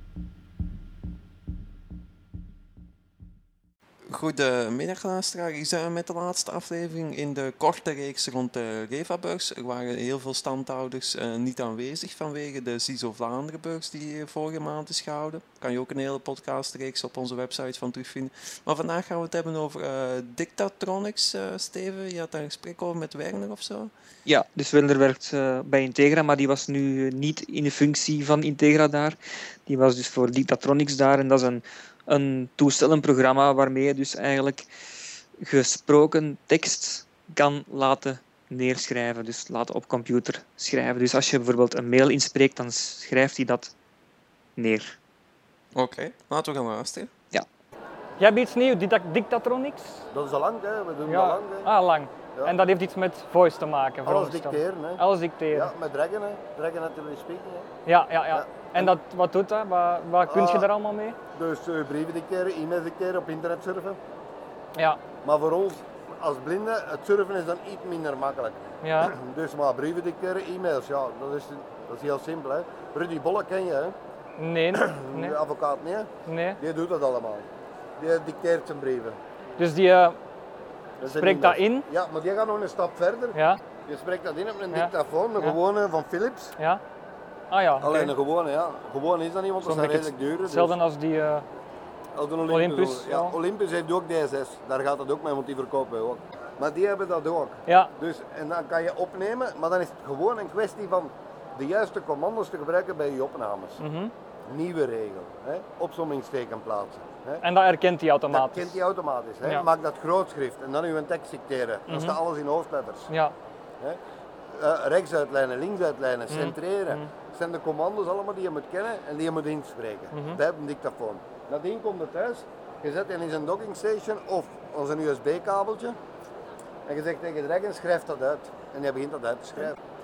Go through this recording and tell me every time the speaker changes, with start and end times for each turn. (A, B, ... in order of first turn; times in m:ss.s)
0:04.1-0:23.9 A
0:24.2-0:34.7 B
0:35.4-0:43.7 B
0:44.6-0:45.0 B
0:45.7-0:47.1 A
0:48.2-0:50.0 C
0:50.1-0:51.7 D
0:51.1-0:55.7 C
0:54.0-0:57.7 D
0:57.8-1:01.2 C
0:58.3-0:59.0 D
1:00.3-1:00.7 D
1:01.3-1:04.0 D
1:05.2-1:13.9 D
1:08.8-1:09.1 C
1:14.4-1:15.4 C
1:14.7-1:17.5 D
1:16.2-1:16.6 C
1:18.0-1:19.2 D
1:19.6-1:20.2 C
1:21.0-1:26.5 D
1:21.1-1:21.8 C
1:23.3-1:23.6 C
1:24.7-1:25.6 C
1:27.5-1:28.1 C
1:27.8-1:30.8 D
1:29.6-1:31.4 C
1:32.1-1:43.8 D
1:32.5-1:33.4 C
1:37.6-1:37.9 C
1:43.8-1:44.1 C
1:44.5-1:47.4 D
1:47.4-1:48.8 C
1:48.3-1:53.1 D
1:51.9-1:52.2 C
1:53.1-1:53.3 C
1:54.5-2:06.0 D
1:56.3-1:57.1 C
2:00.1-2:00.4 C
2:06.8-2:09.8 D